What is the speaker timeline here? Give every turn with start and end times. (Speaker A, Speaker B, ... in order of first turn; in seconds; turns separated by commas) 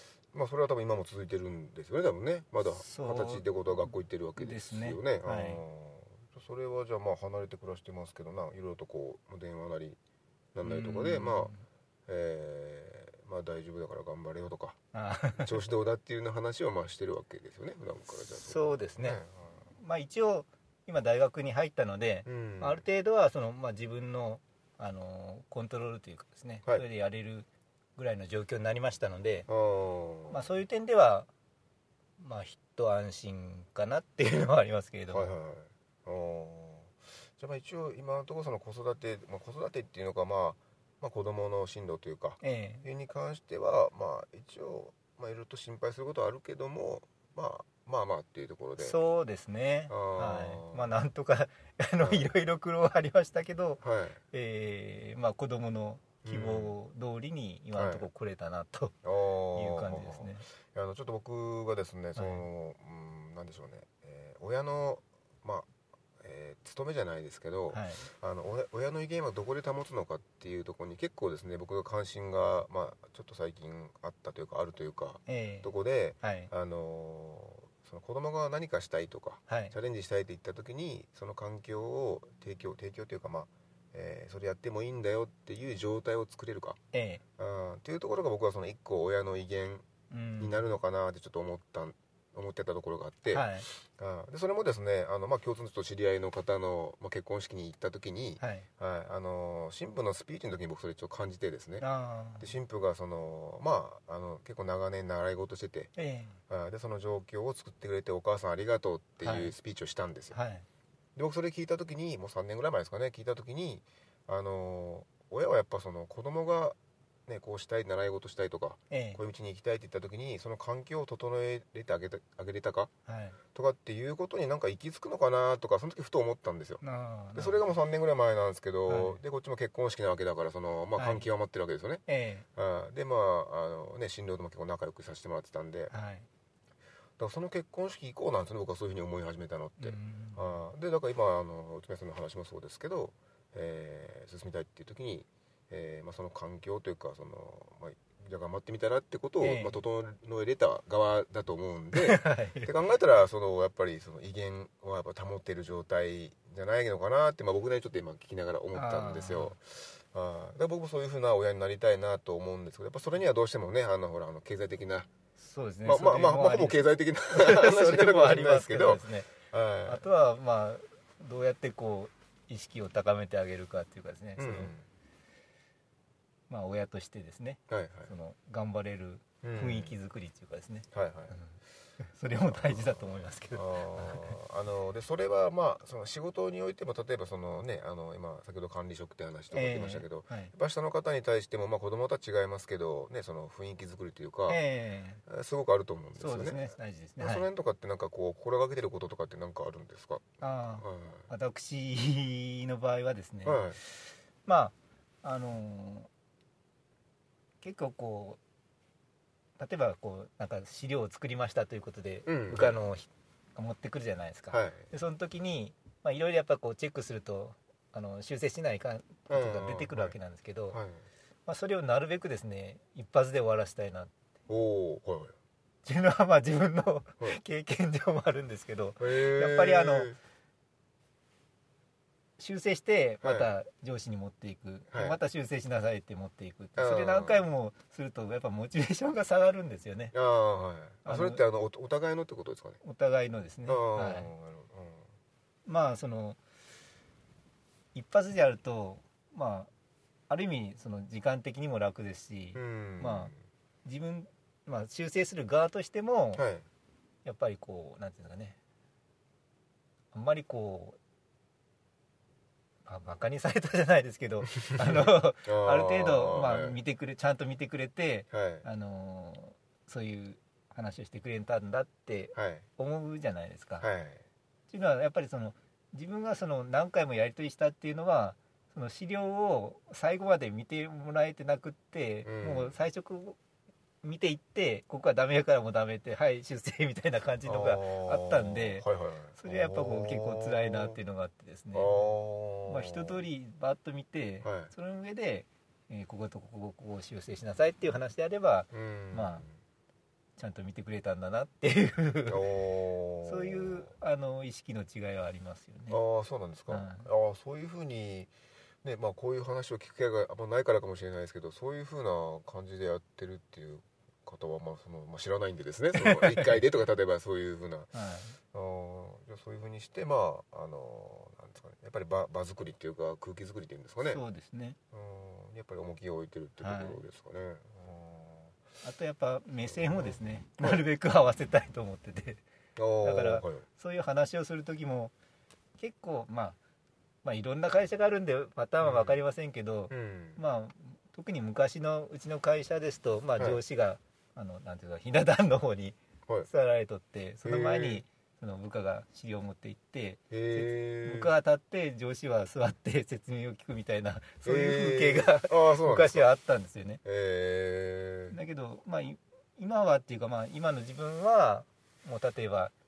Speaker A: 0.3-10.0, Speaker B: 2.7-3.5, Speaker B: 4.4-5.6, Speaker A: 10.5-11.5, Speaker B: 10.6-11.6, Speaker A: 12.1-14.8, Speaker B: 14.9-15.5, Speaker A: 15.4-19.5, Speaker B: 18.4-19.2, Speaker B: 19.8-29.5, Speaker A: 22.2-22.8, Speaker A: 29.5-30.4, Speaker B: 30.3-31.3, Speaker B: 32.2-35.3, Speaker A: 35.1-49.0, Speaker B: 42.4-42.8, Speaker B: 48.8-59.0, Speaker A: 49.9-50.8, Speaker A: 53.8-54.2, Speaker A: 56.2-56.7, Speaker A: 57.8-58.1, Speaker A: 59.0-65.7, Speaker B: 59.5-60.5, Speaker B: 62.1-62.4, Speaker A: 66.2-86.8, Speaker B: 67.7-68.1, Speaker B: 75.3-75.7, Speaker B: 76.2-76.5, Speaker B: 79.5-79.7, Speaker B: 86.9-87.2, Speaker A: 87.4-89.8, Speaker B: 90.1-90.7, Speaker A: 90.4-101.8, Speaker B: 93.3-93.7, Speaker B: 98.4-98.7, Speaker B: 101.8-102.5, Speaker A: 102.4-105.9, Speaker B: 106.0-106.4, Speaker A: 106.5-110.3, Speaker B: 109.2-109.5, Speaker B: 110.3-110.6, Speaker A: 111.2-122.9, Speaker B: 118.9-119.2, Speaker B: 123.1-123.4, Speaker A: 123.5-126.8, Speaker B: 126.8-127.7, Speaker A: 127.3-132.0, Speaker B: 128.9-129.2, Speaker B: 130.9-131.2, Speaker B: 132.1-132.4, Speaker A: 132.5-135.9, Speaker B: 135.9-136.3, Speaker A: 137.2-165.1, Speaker B: 139.8-140.4, Speaker B: 149.4-149.8, Speaker B: 151.9-152.7, Speaker B: 158.7-159.5, Speaker B: 165.4-169.3, Speaker A: 165.8-170.0, Speaker B: 169.8-174.7, Speaker A: 174.4-174.8, Speaker B: 176.5-181.5, Speaker A: 177.7-178.1, Speaker A: 179.4-179.9, Speaker A: 180.9-181.3, Speaker B: 182.0-184.3, Speaker A: 182.5-183.0, Speaker A: 183.5-194.6, Speaker B: 189.5-190.5, Speaker B: 194.5-195.2, Speaker A: 195.2-201.3, Speaker B: 196.2-197.4, Speaker B: 200.4-206.1, Speaker A: 203.4-203.8, Speaker B: 207.6-208.4, Speaker B: 209.6-220.8, Speaker A: 212.2-212.8, Speaker A: 214.5-214.8, Speaker A: 219.3-220.2, Speaker A: 220.7-221.0, Speaker B: 221.5-224.1, Speaker A: 224.5-225.3, Speaker B: 225.8-230.1, Speaker A: 229.0-230.2, Speaker B: 232.4-240.1, Speaker A: 233.2-233.5, Speaker A: 234.9-235.2, Speaker A: 236.8-237.4, Speaker A: 240.1-242.8, Speaker B: 241.0-241.4, Speaker B: 242.8-244.3, Speaker A: 243.7-245.1, Speaker B: 245.7-246.4, Speaker B: 247.9-249.7, Speaker B: 250.3-253.3, Speaker A: 252.5-253.3, Speaker B: 253.8-256.4, Speaker A: 256.4-256.6, Speaker B: 257.2-258.6, Speaker B: 260.1-261.0, Speaker B: 262.9-273.9, Speaker A: 264.6-266.8, Speaker A: 268.3-268.6, Speaker A: 272.3-272.6, Speaker A: 273.8-274.2, Speaker B: 274.7-283.4, Speaker A: 282.2-282.7, Speaker B: 284.0-288.9, Speaker A: 287.4-291.0, Speaker B: 289.4-292.1, Speaker A: 291.7-293.2, Speaker B: 292.6-299.4, Speaker A: 294.4-294.7, Speaker A: 298.7-299.5, Speaker B: 300.4-302.4, Speaker A: 302.3-303.9, Speaker B: 303.2-306.0, Speaker A: 305.9-308.3, Speaker B: 306.7-307.1, Speaker A: 308.8-317.9, Speaker B: 316.0-316.6, Speaker B: 317.9-318.4, Speaker A: 318.5-324.2, Speaker B: 324.0-324.8, Speaker A: 324.9-328.6, Speaker B: 326.6-327.0, Speaker B: 328.8-332.4, Speaker A: 329.7-330.8, Speaker A: 332.8-333.6, Speaker B: 333.0-335.1, Speaker B: 335.8-336.6, Speaker B: 337.2-357.0, Speaker A: 338.8-339.1, Speaker A: 339.9-340.4, Speaker A: 347.4-348.0, Speaker A: 350.3-351.3, Speaker A: 354.4-356.2, Speaker A: 357.0-358.4, Speaker B: 358.3-362.7